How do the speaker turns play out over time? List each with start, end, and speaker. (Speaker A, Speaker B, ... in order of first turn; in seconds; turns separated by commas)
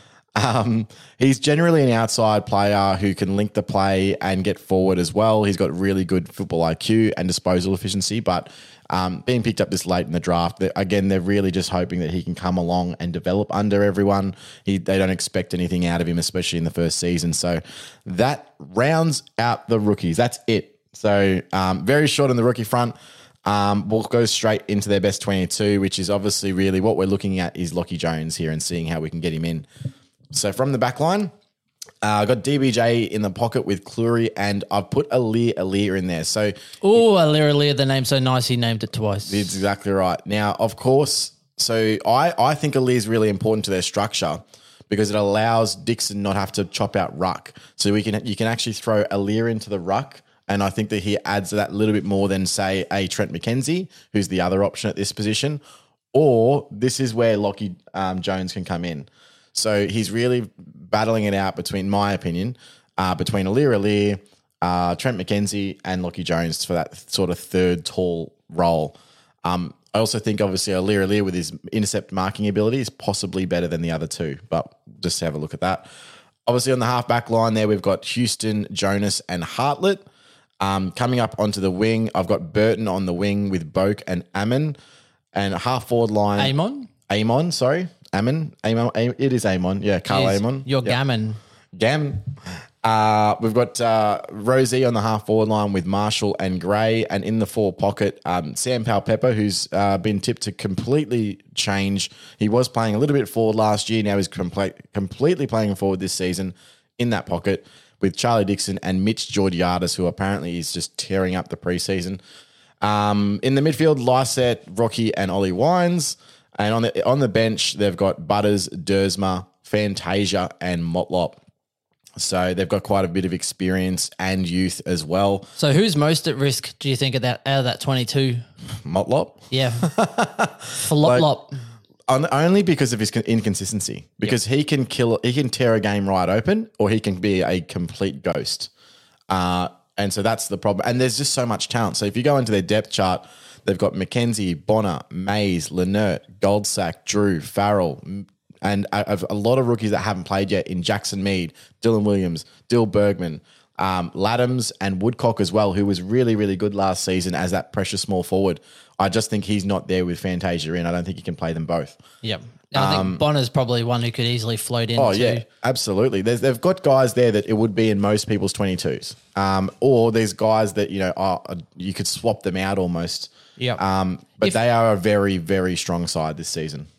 Speaker A: 0.3-29.7, Speaker A: 30.3-31.3, Speaker A: 32.0-36.5, Speaker B: 36.8-39.5, Speaker A: 39.3-55.6, Speaker A: 56.1-75.9, Speaker A: 76.5-80.0, Speaker A: 80.6-84.8, Speaker A: 85.3-86.5, Speaker B: 86.4-86.9, Speaker A: 87.1-91.0, Speaker B: 90.1-91.4, Speaker A: 91.7-112.2, Speaker A: 112.8-121.4, Speaker A: 122.2-125.5, Speaker B: 125.6-128.4, Speaker A: 128.8-131.2, Speaker B: 129.5-129.9, Speaker B: 130.8-131.6, Speaker A: 132.1-138.7, Speaker A: 139.3-162.0, Speaker B: 162.2-165.4, Speaker A: 162.7-163.2, Speaker A: 165.0-176.9